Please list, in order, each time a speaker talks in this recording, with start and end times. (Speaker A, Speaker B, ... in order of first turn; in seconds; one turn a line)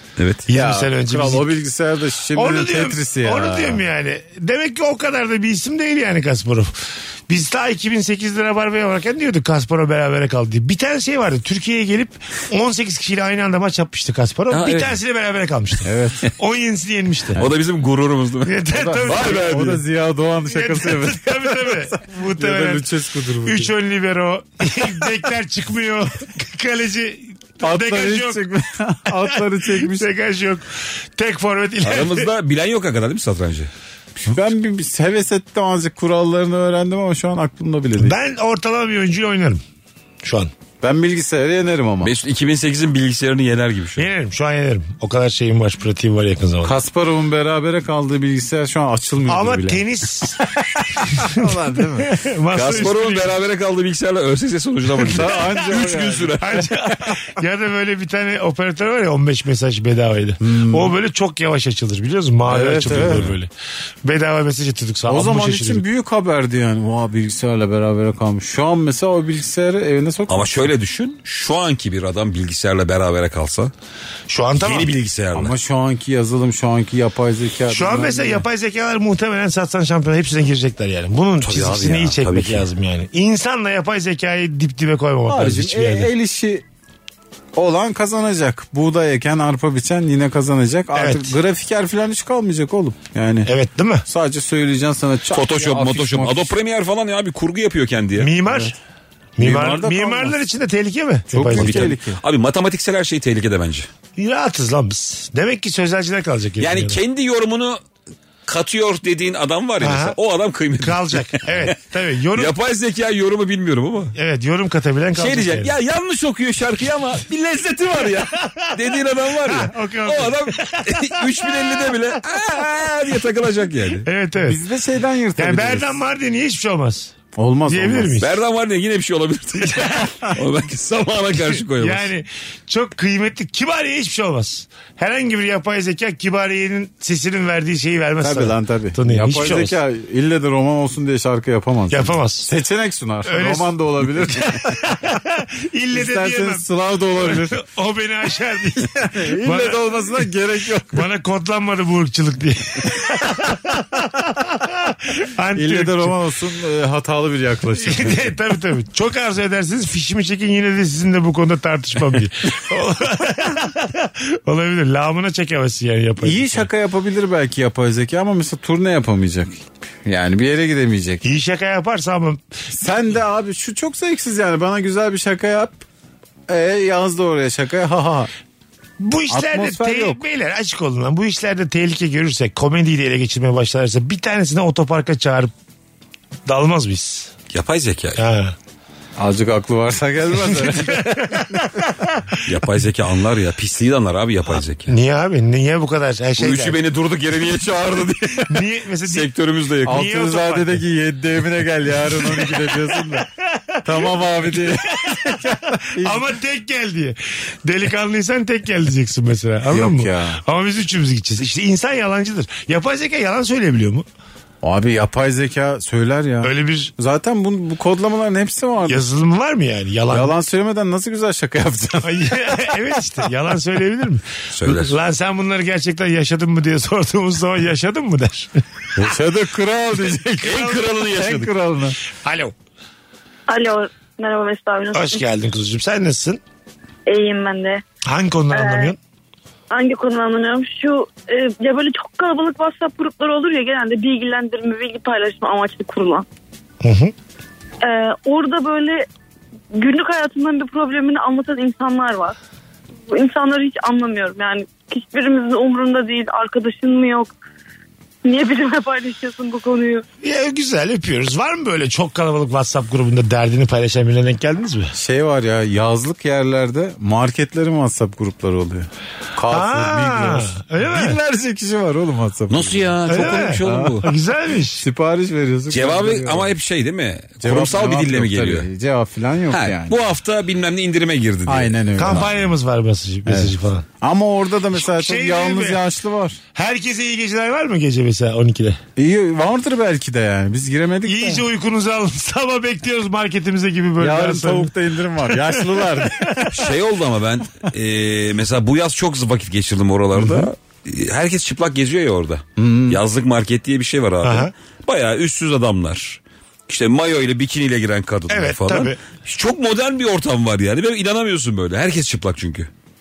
Speaker A: 0.2-0.4
Speaker B: 0.5-1.5
Speaker C: 0.5-3.8
Speaker B: 2.4-17.4
Speaker A: 14.5-15.0
Speaker C: 15.8-16.2
Speaker A: 17.4-19.8
Speaker B: 18.4-19.5
Speaker C: 18.7-23.7
Speaker B: 20.5-22.9
Speaker B: 23.4-28.5
Speaker C: 27.6-30.1
Speaker B: 29.2-30.6
Speaker B: 31.2-32.3
Speaker A: 31.8-33.7
Speaker C: 34.3-38.2
Speaker B: 38.0-39.6
Speaker B: 40.2-40.5
Speaker C: 40.8-42.1
Speaker A: 42.0-44.1
Speaker B: 44.0-46.8
Speaker C: 46.6-49.9
Speaker B: 49.3-50.4
Speaker C: 50.4-52.1
Speaker B: 51.0-51.4
Speaker B: 52.0-53.4
Speaker A: 52.5-56.8
Speaker B: 55.0-55.5
Speaker C: 55.1-56.7
Speaker B: 56.4-63.5
Speaker C: 60.4-60.9
Speaker C: 62.5-63.3
Speaker A: 62.9-63.3
Speaker B: 64.0-65.8
Speaker C: 65.1-70.7
Speaker A: 70.3-73.7
Speaker B: 74.3-74.9
Speaker A: 74.6-75.5
Speaker C: 75.3-78.5
Speaker B: 77.7-86.1
Speaker A: 81.4-82.7
Speaker C: 85.3-86.6
Speaker C: 87.5-93.5
Speaker B: 90.9-91.4
Speaker B: 93.5-94.0
Speaker C: 94.0-96.5
Speaker A: 95.3-98.3
Speaker B: 98.2-98.8
Speaker B: 99.4-101.9
Speaker C: 99.4-100.4
Speaker C: 101.3-102.2
Speaker A: 101.5-103.9
Speaker B: 104.2-107.0
Speaker A: 106.6-107.8
Speaker A: 108.5-111.8
Speaker B: 109.8-110.2
Speaker B: 110.8-112.5
Speaker A: 112.3-114.2
Speaker B: 114.2-115.7
Speaker A: 115.2-124.1
Speaker B: 118.4-118.9
Speaker B: 119.5-121.9
Speaker B: 124.0-124.6
Speaker C: 124.4-126.0
Speaker B: 125.4-127.2
Speaker C: 127.3-128.1
Speaker B: 127.7-128.3
Speaker A: 128.2-132.1
Speaker B: 129.6-130.3
Speaker B: 131.4-139.8
Speaker C: 138.2-145.0
Speaker B: 141.9-142.5
Speaker B: 143.2-150.2
Speaker C: 145.9-147.6
Speaker C: 148.8-151.1
Speaker B: 150.9-156.2
Speaker C: 155.5-158.3
Speaker B: 157.8-166.7
Speaker C: 166.2-171.2
Speaker B: 171.2-172.4
Speaker C: 172.7-175.8
Speaker C: 176.5-178.3
Speaker B: 179.0-185.5
Speaker C: 179.3-180.2
Speaker B: 186.5-187.3
Speaker A: 187.5-188.2
Speaker B: 188.2-188.6
Speaker C: 189.2-191.7
Speaker B: 190.5-192.4
Speaker A: 192.4-194.9
Speaker B: 194.9-196.8
Speaker A: 196.4-200.1
Speaker B: 198.5-199.3
Speaker C: 199.8-203.3
Speaker B: 199.9-200.8
Speaker B: 203.5-214.1
Speaker C: 203.8-206.3
Speaker C: 209.7-210.4
Speaker C: 214.6-219.0
Speaker B: 216.4-216.9
Speaker B: 218.9-220.3
Speaker C: 220.1-223.0
Speaker B: 222.0-228.6
Speaker A: 224.5-224.9
Speaker C: 229.0-232.0
Speaker A: 230.4-231.5
Speaker B: 232.2-232.5
Speaker D: 233.5-235.2
Speaker B: 234.9-236.4
Speaker D: 237.1-237.8
Speaker B: 238.1-239.0
Speaker D: 238.5-238.9
Speaker D: 239.7-246.3
Speaker B: 246.8-247.1
Speaker D: 247.8-249.1
Speaker D: 249.7-252.4
Speaker D: 253.1-257.3
Speaker D: 258.2-260.1
Speaker B: 260.2-264.9
Speaker C: 264.9-276.5
Speaker B: 269.5-271.2
Speaker A: 272.5-274.1
Speaker B: 273.1-274.8
Speaker A: 275.7-278.7
Speaker C: 277.4-280.0
Speaker A: 279.5-282.3
Speaker C: 281.5-282.3
Speaker B: 282.0-283.9
Speaker C: 283.3-286.4
Speaker B: 284.8-285.8
Speaker B: 286.6-288.8
Speaker C: 289.0-291.5
Speaker B: 291.1-296.5
Speaker C: 294.0-296.5
Speaker A: 296.5-312.7
Speaker C: 300.1-300.5
Speaker C: 302.6-303.0
Speaker B: 304.2-304.5
Speaker B: 308.3-309.0